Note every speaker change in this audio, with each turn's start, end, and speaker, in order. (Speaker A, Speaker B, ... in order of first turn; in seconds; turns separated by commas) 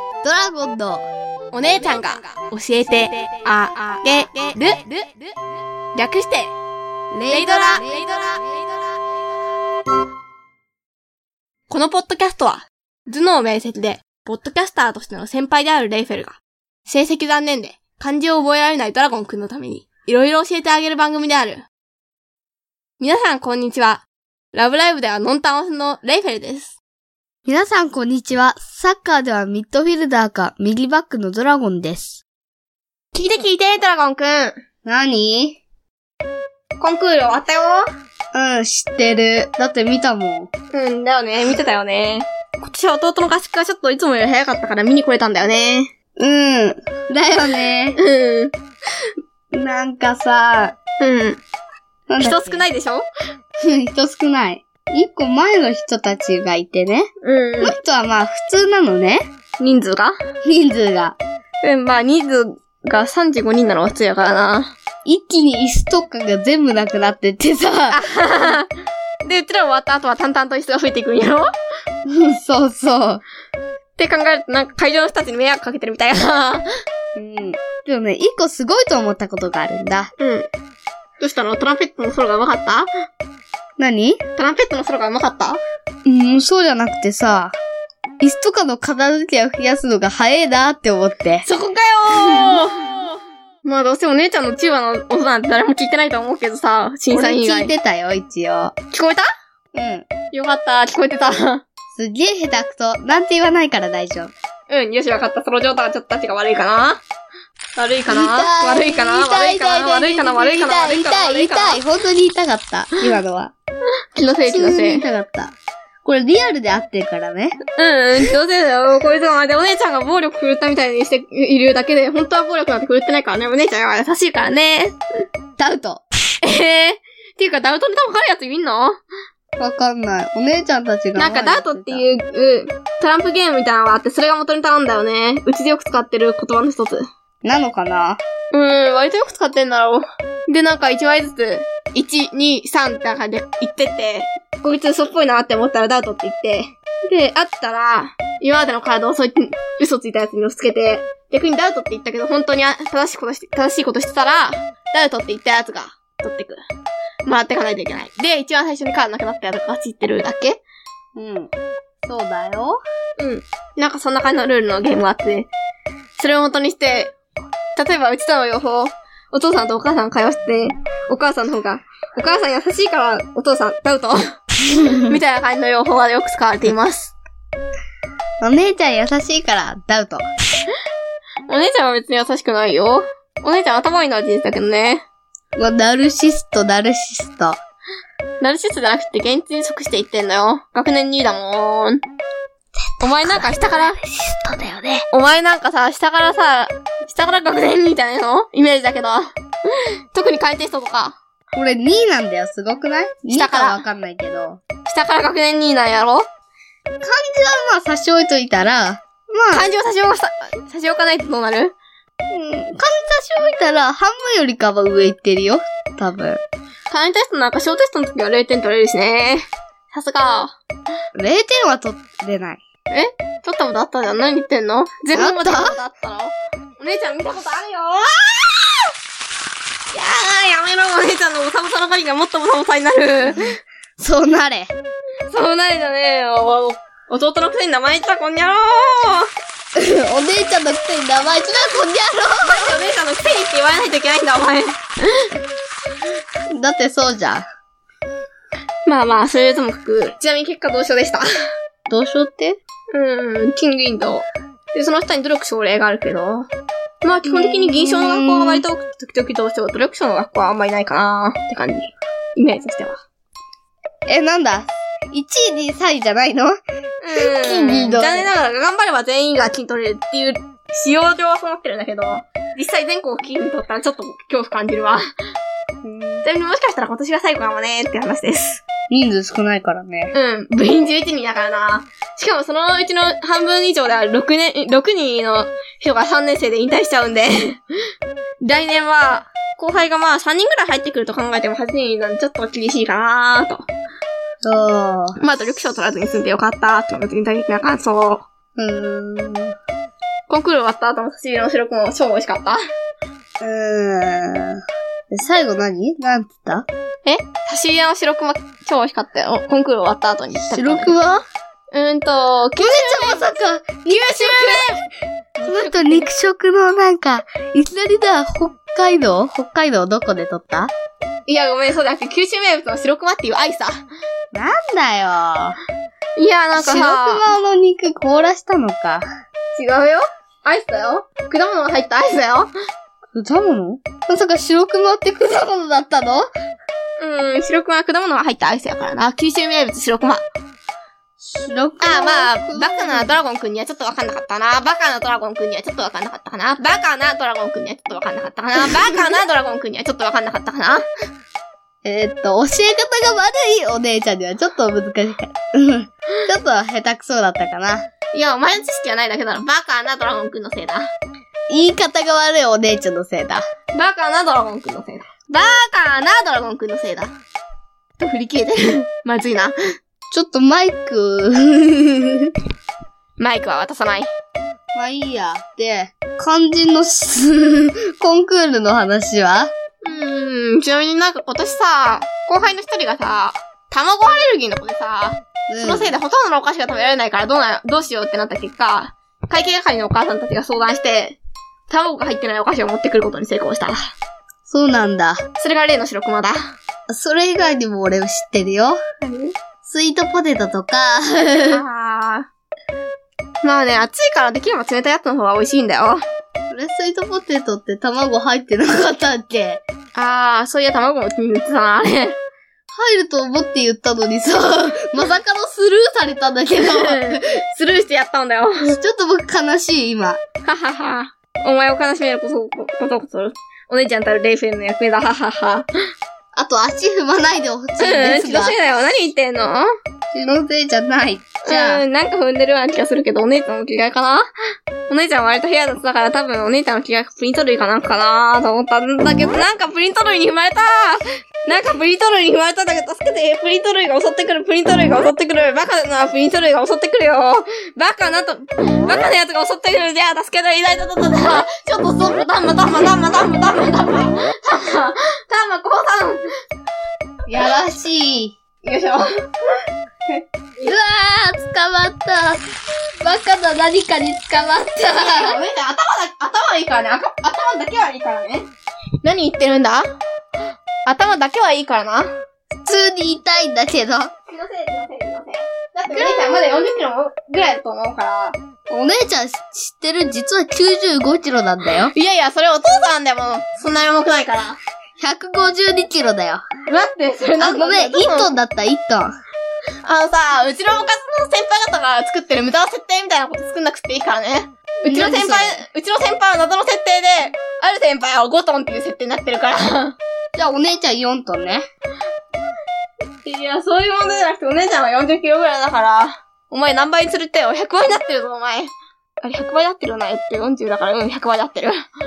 Speaker A: 0.2-1.0, Speaker B: 1.5-5.2, Speaker B: 5.9-6.5, Speaker A: 7.1-8.1, Speaker B: 7.3-8.9, Speaker B: 11.7-21.6, Speaker B: 23.0-26.8, Speaker A: 27.4-32.2, Speaker B: 33.1-34.6, Speaker A: 34.8-35.6, Speaker B: 36.8-37.8, Speaker A: 38.3-40.5, Speaker B: 40.7-45.9, Speaker A: 46.2-48.0, Speaker B: 48.0-48.5, Speaker A: 49.5-50.8, Speaker B: 51.0-51.4, Speaker A: 52.1-52.6, Speaker B: 52.2-53.0, Speaker A: 53.6-57.1, Speaker B: 57.2-57.7, Speaker A: 57.6-59.2, Speaker B: 59.6-60.1, Speaker A: 60.4-61.2, Speaker B: 61.6-64.7, Speaker A: 65.0-68.0, Speaker B: 67.9-68.7, Speaker B: 69.2-71.5, Speaker A: 72.0-73.2, Speaker B: 74.0-76.6, Speaker A: 77.1-80.1, Speaker B: 80.2-80.5, Speaker B: 81.2-82.9, Speaker A: 83.8-84.2, Speaker B: 84.3-85.6, Speaker A: 86.0-87.5, Speaker A: 88.2-91.5, Speaker B: 91.4-93.1, Speaker A: 92.1-92.6, Speaker B: 93.6-97.7, Speaker A: 97.1-98.7, Speaker B: 98.9-99.3, Speaker A: 99.7-100.0, Speaker B: 100.3-101.6, Speaker A: 101.9-104.3, Speaker B: 104.7-107.0, Speaker B: 107.7-111.8, Speaker A: 108.1-113.5, Speaker B: 114.1-115.0, Speaker A: 114.5-117.6, Speaker B: 117.8-125.0, Speaker A: 125.6-126.0, Speaker B: 126.4-129.0, Speaker A: 129.6-132.0, Speaker B: 131.2-137.1, Speaker A: 137.4-138.2, Speaker B: 138.5-156.6, Speaker B: 157.2-160.6, Speaker A: 161.2-161.5, Speaker A: 162.0-162.8, Speaker B: 163.2-165.5, Speaker B: 166.2-167.1, Speaker B: 167.7-174.2, Speaker A: 174.7-175.2, Speaker B: 174.8-177.1, Speaker A: 178.4-180.3, Speaker B: 181.5-185.0, Speaker A: 185.6-187.6, Speaker B: 188.4-192.0, Speaker A: 192.9-195.0, Speaker B: 193.0-193.9, Speaker B: 195.1-199.3, Speaker B: 200.1-201.2, Speaker A: 201.5-204.6, Speaker B: 203.3-203.8, Speaker B: 204.8-206.3, Speaker A: 207.0-209.7, Speaker B: 209.5-211.7, Speaker A: 212.3-216.4, Speaker B: 216.9-220.6, Speaker A: 221.1-222.6, Speaker B: 222.9-228.8, Speaker A: 225.1-225.8, Speaker B: 229.9-233.6, Speaker A: 234.0-234.7, Speaker B: 235.3-239.3, Speaker A: 239.8-242.8, Speaker B: 242.4-245.3, Speaker A: 246.5-247.5, Speaker B: 248.8-251.2, Speaker A: 251.9-252.6, Speaker B: 252.9-256.5, Speaker B: 257.0-263.0, Speaker A: 257.2-258.6, Speaker A: 264.1-266.5, Speaker B: 267.0-275.0, Speaker A: 267.1-268.3, Speaker A: 275.8-276.2, Speaker B: 276.2-278.6, Speaker A: 278.9-280.1, Speaker B: 280.1-287.6, Speaker B: 288.4-293.7, Speaker A: 294.4-295.2, Speaker B: 295.2-298.2, Speaker A: 298.6-299.5, Speaker B: 300.3-302.6, Speaker A: 303.4-306.7, Speaker B: 307.0-310.9, Speaker A: 310.5-311.2, Speaker B: 311.7-313.2, Speaker A: 312.6-314.6, Speaker B: 313.9-314.8, Speaker A: 315.4-320.7, Speaker B: 315.4-316.1, Speaker B: 321.2-323.8, Speaker A: 324.3-325.6, Speaker B: 326.1-327.2, Speaker A: 326.6-329.0, Speaker B: 329.5-332.5, Speaker A: 333.1-336.3, Speaker B: 337.0-340.2, Speaker A: 341.2-343.1, Speaker B: 341.8-350.8, Speaker A: 351.8-357.9, Speaker B: 358.1-360.9, Speaker A: 361.5-363.4, Speaker B: 363.7-367.1, Speaker B: 368.0-369.5, Speaker A: 370.1-372.3, Speaker B: 373.2-374.1, Speaker A: 374.7-379.5, Speaker B: 379.8-393.9, Speaker A: 385.5-385.9, Speaker A: 394.5-395.2, Speaker B: 395.4-396.3, Speaker A: 396.9-398.8, Speaker B: 399.0-399.3, Speaker A: 399.6-401.6, Speaker B: 401.5-402.3, Speaker B: 403.4-406.0, Speaker A: 406.5-409.6, Speaker B: 409.9-412.2, Speaker A: 412.7-417.2, Speaker B: 416.6-418.5, Speaker A: 418.6-420.2, Speaker B: 420.4-425.7, Speaker A: 426.3-428.6, Speaker B: 427.8-429.7, Speaker A: 430.1-431.8, Speaker B: 431.4-434.2, Speaker B: 434.9-456.2, Speaker A: 457.3-458.4, Speaker B: 458.6-459.1, Speaker A: 460.6-462.4, Speaker A: 463.0-465.4, Speaker B: 464.9-468.5, Speaker B: 469.0-469.8, Speaker B: 470.8-472.1, Speaker A: 472.6-474.1, Speaker B: 474.3-478.4, Speaker A: 475.9-476.6, Speaker A: 478.7-481.9, Speaker B: 481.8-484.6, Speaker A: 485.0-486.4, Speaker B: 486.7-488.3, Speaker A: 487.4-489.1, Speaker B: 489.8-499.9, Speaker A: 494.9-495.6, Speaker A: 500.3-501.6, Speaker B: 503.2-508.7, Speaker B: 509.2-511.8